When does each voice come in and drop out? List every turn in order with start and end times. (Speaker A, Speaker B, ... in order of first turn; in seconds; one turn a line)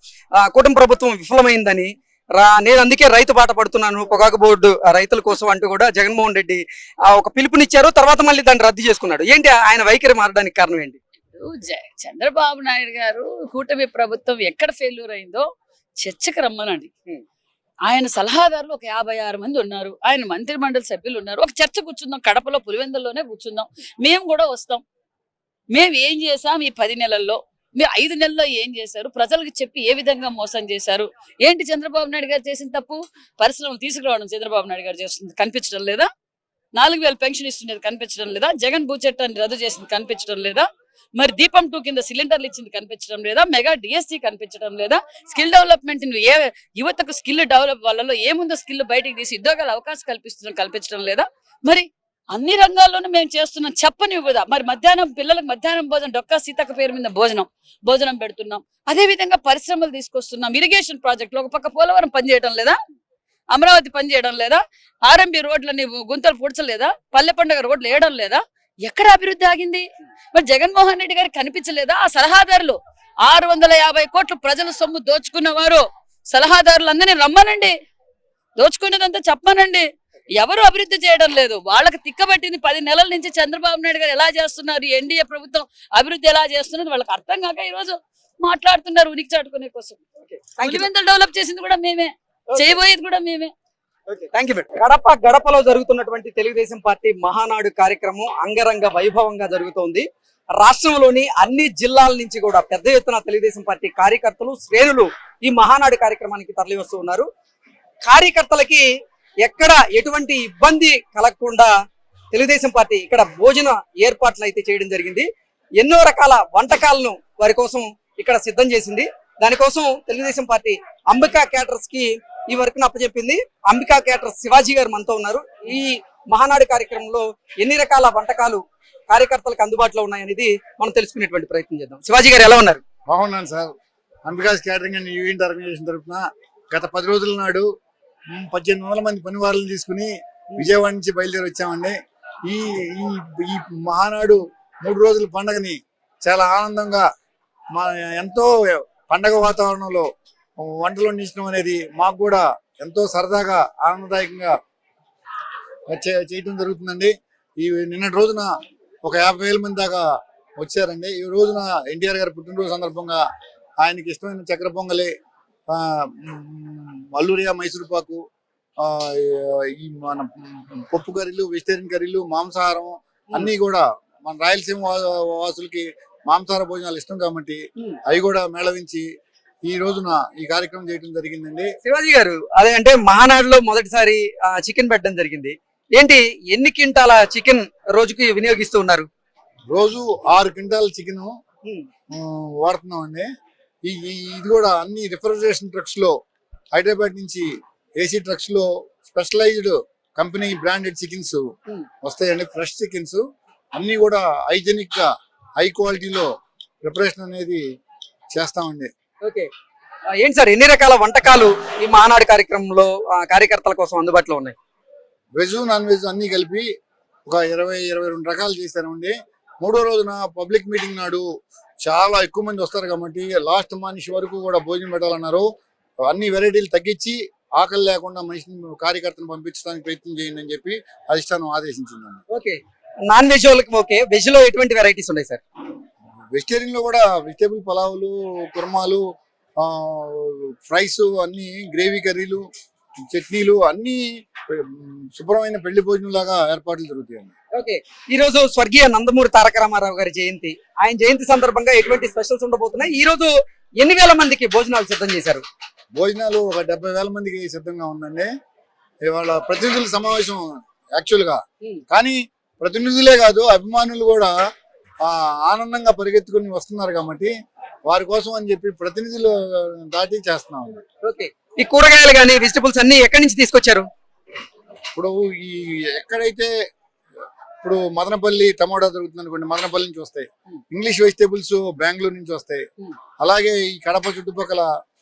Speaker A: 0.4-11.0
Speaker B: 11.3-15.5
Speaker B: 16.0-16.9
Speaker B: 17.9-24.8
Speaker B: 25.7-36.1
Speaker B: 36.7-62.8
Speaker B: 63.5-77.7
Speaker B: 78.6-90.0
Speaker A: 90.3-90.9
Speaker B: 90.6-93.5
Speaker A: 94.1-100.0
Speaker A: 100.6-107.3
Speaker A: 108.0-108.8
Speaker A: 109.4-111.7
Speaker A: 112.3-132.8
Speaker C: 133.1-133.7
Speaker C: 134.2-137.7
Speaker C: 138.3-147.0
Speaker C: 147.7-150.1
Speaker C: 150.6-154.5
Speaker C: 155.9-160.1
Speaker C: 160.6-163.2
Speaker C: 163.8-165.1
Speaker C: 165.7-168.2
Speaker C: 168.8-179.0
Speaker C: 179.7-181.7
Speaker A: 181.8-189.1
Speaker C: 189.7-191.3
Speaker C: 192.1-193.3
Speaker C: 193.8-196.1
Speaker C: 196.7-197.5
Speaker C: 198.0-201.4
Speaker C: 202.0-203.2
Speaker C: 203.7-206.3
Speaker C: 206.8-207.6
Speaker C: 208.3-208.9
Speaker A: 209.2-209.5
Speaker A: 210.2-214.6
Speaker C: 215.3-216.7
Speaker C: 217.2-221.2
Speaker C: 221.8-225.5
Speaker C: 226.0-232.2
Speaker A: 232.3-235.4
Speaker C: 236.3-239.0
Speaker C: 239.6-242.4
Speaker C: 243.1-247.3
Speaker A: 247.5-255.4
Speaker C: 255.9-258.3
Speaker C: 259.0-264.3
Speaker C: 265.0-267.3
Speaker C: 267.9-270.8
Speaker A: 271.0-273.9
Speaker C: 274.9-276.5
Speaker C: 277.6-282.6
Speaker C: 283.2-284.7